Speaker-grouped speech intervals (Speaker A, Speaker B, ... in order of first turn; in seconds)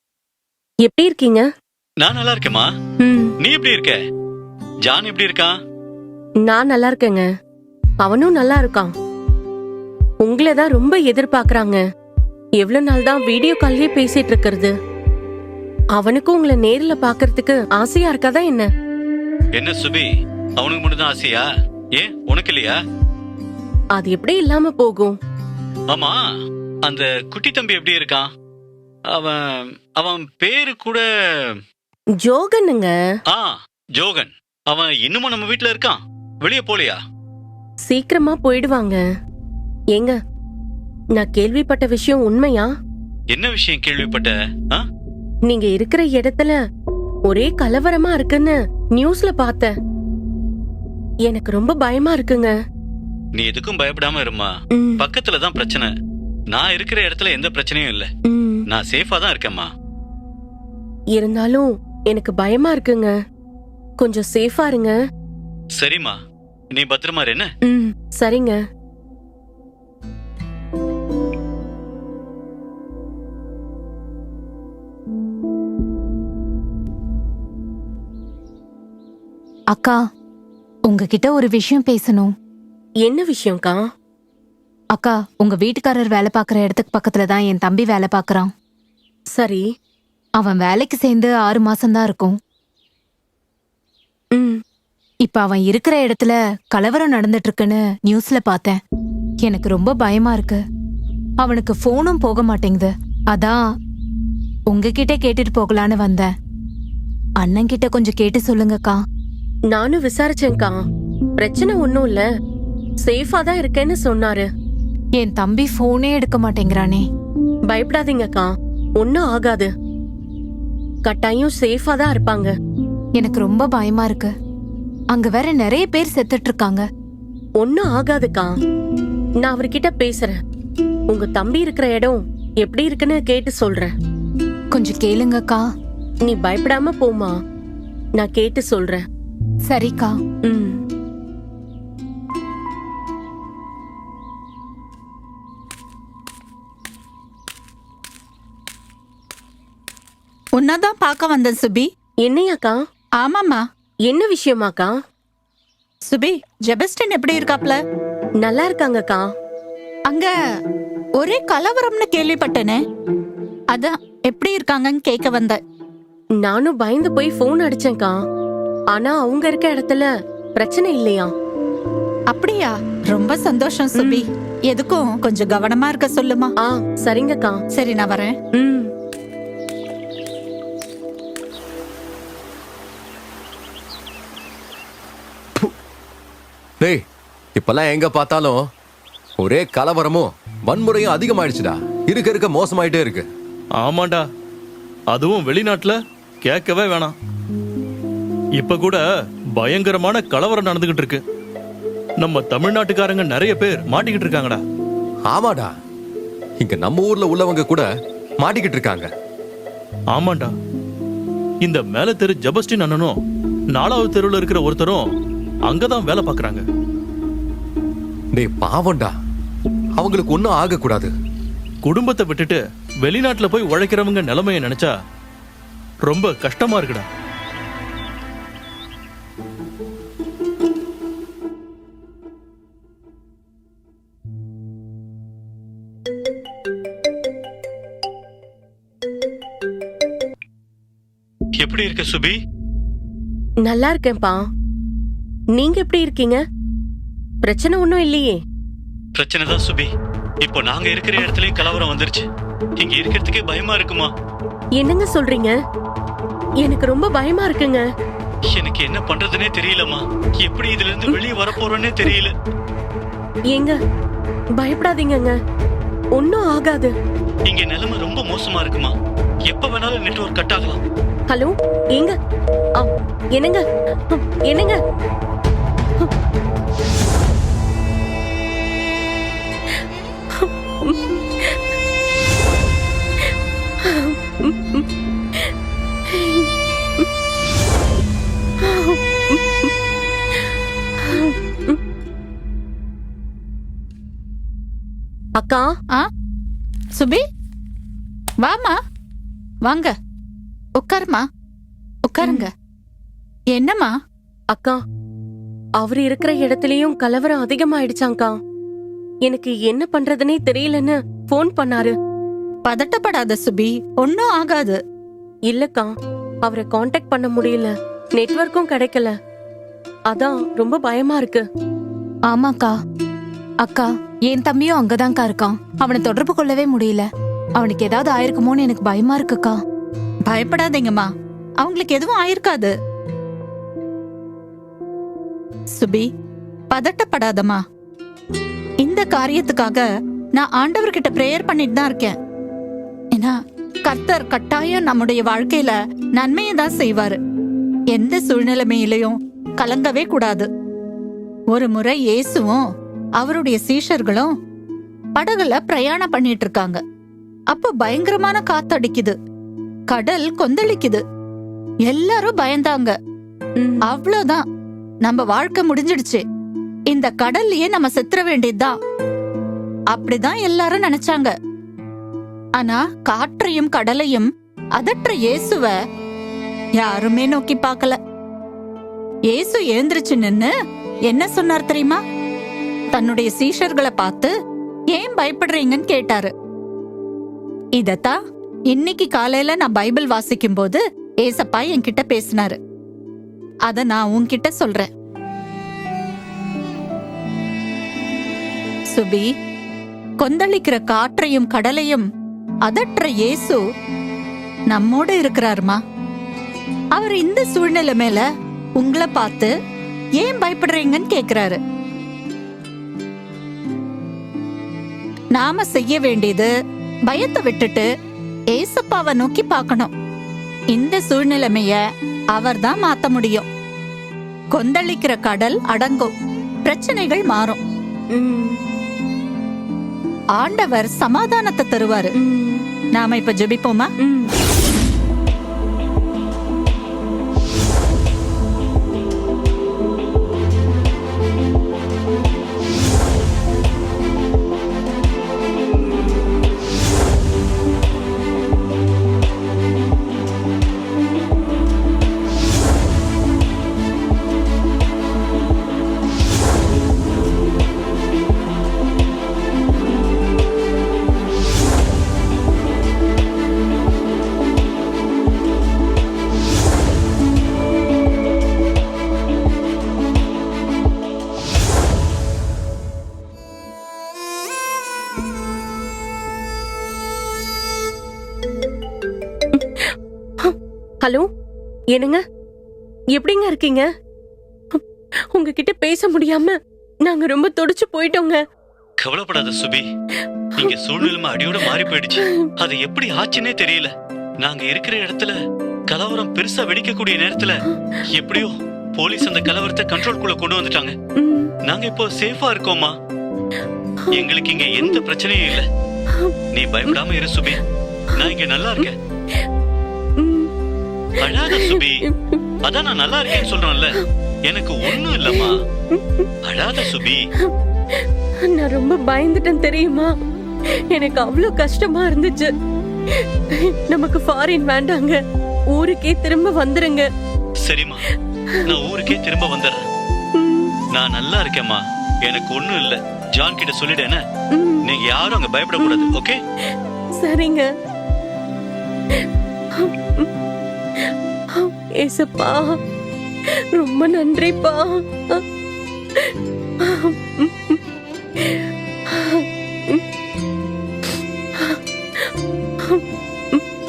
Speaker A: 0.8-1.5, 3.0-3.3, 6.4-7.3, 8.0-8.9, 10.2-11.8, 12.6-14.7, 16.0-18.7, 23.9-25.2, 32.2-32.9, 37.9-39.0, 41.1-42.7, 45.5-46.6, 47.3-49.7, 51.3-52.5, 54.8-55.0, 58.3-58.6, 61.2-63.1, 64.0-65.0, 67.7-68.6, 83.0-83.8, 89.3-89.7, 94.3-94.6, 109.7-110.8, 111.4-112.2, 113.0-114.5, 117.7-119.7, 121.0-122.5, 127.6-128.5, 129.4-130.4, 131.1-133.9, 136.2-137.3, 138.2-139.0, 140.4-140.8, 152.2-152.8, 154.1-154.9, 158.4-159.2, 166.4-168.2, 168.9-171.3, 176.6-177.6, 178.6-178.9, 243.6-244.4, 245.6-246.4, 247.4-248.4, 254.8-255.6, 256.6-257.8, 263.5-263.8, 264.6-265.3, 266.1-266.9, 271.3-272.1, 272.8-274.8, 279.7-281.8, 283.2-285.5, 286.1-287.1, 288.6-289.7, 290.3-291.8, 295.4-295.7, 304.5-304.8, 305.8-308.4, 309.2-311.9, 315.5-315.9, 316.4-319.1, 320.1-321.4, 428.1-428.6, 432.2-432.6, 434.1-434.3, 479.5-481.3, 481.9-482.2, 483.1-483.9, 484.7-488.4, 490.2-491.1, 491.8-492.5, 497.7-498.0, 501.2-501.5, 503.6-504.2, 506.1-506.3, 508.8-509.5, 510.2-510.5, 511.2-512.4, 514.9-520.1, 520.7-522.5, 523.1-525.2, 525.7-527.1, 528.5-528.8, 530.4-530.8, 534.5-534.8, 535.8-536.1, 536.7-537.7, 539.1-540.3, 541.0-542.8, 543.5-545.5, 546.1-547.8, 548.4-550.0, 551.0-553.6
Speaker B: 2.0-2.7, 3.4-4.0, 4.9-5.5, 19.6-21.4, 22.0-22.8, 25.9-26.2, 26.9-28.2, 29.1-31.6, 33.3-37.0, 43.3-44.8, 53.4-55.9, 56.5-58.1, 58.7-59.7, 65.8-66.2, 66.7-67.5, 241.6-242.4, 249.2-249.9, 250.4-252.2, 252.8-254.1, 258.5-262.3, 267.5-268.9, 269.5-270.8, 489.0-489.9, 490.6-493.9, 494.4-495.4, 495.9-500.9, 501.6-502.9, 504.1-505.7, 506.5-507.6, 508.2-508.9, 511.2-512.0, 512.6-515.5, 516.4-517.2, 527.6-528.0, 528.7-529.8, 530.9-534.2, 534.8-536.4
Speaker C: 79.7-80.0, 80.9-82.3, 84.9-88.5, 90.4-92.4, 95.2-98.8, 99.4-100.6, 101.4-103.6, 104.7-106.3, 107.4-109.0, 115.2-117.0, 123.2-124.3, 125.1-126.8, 134.7-135.6, 139.7-140.1, 322.3-322.7, 323.6-329.6
Speaker D: 150.6-151.9, 153.2-153.6, 156.1-157.8, 161.2-162.8, 163.7-165.6, 172.3-176.5, 177.8-178.3, 298.4-298.8, 299.6-299.9, 300.8-301.2, 302.1-302.5, 303.5-303.9, 312.6-314.8, 330.3-331.1, 331.6-332.7, 335.8-336.1, 336.7-337.6, 338.8-339.8, 340.4-342.1, 343.1-347.2, 347.9-350.5, 351.5-352.6, 353.2-354.3, 355.1-356.8, 357.5-359.1, 359.9-361.0, 361.9-362.9, 363.9-364.4, 365.0-366.2, 366.9-368.8, 369.9-371.3, 372.6-375.7, 376.8-378.0, 379.3-380.5, 381.1-382.0, 382.9-384.3, 384.9-386.3, 387.8-388.2, 388.7-392.6, 393.7-394.9, 398.9-399.3, 400.2-402.1, 402.7-403.6, 404.7-405.8, 406.9-408.2, 408.8-409.5, 410.2-411.6, 415.3-416.5, 417.1-417.9, 418.5-419.9, 420.7-421.8, 422.3-423.5, 424.5-426.1, 426.7-427.6, 430.4-432.1, 432.9-433.9
Speaker E: 187.6-188.6, 189.4-193.2, 205.3-205.7, 206.6-207.9, 208.4-209.1, 218.3-219.1, 220.0-221.1
Speaker F: 193.8-194.2, 195.1-197.1, 198.6-199.0, 199.6-201.2, 202.2-204.6, 210.1-210.5, 211.6-213.2, 213.8-215.1, 215.7-216.6, 221.8-224.9, 226.1-227.1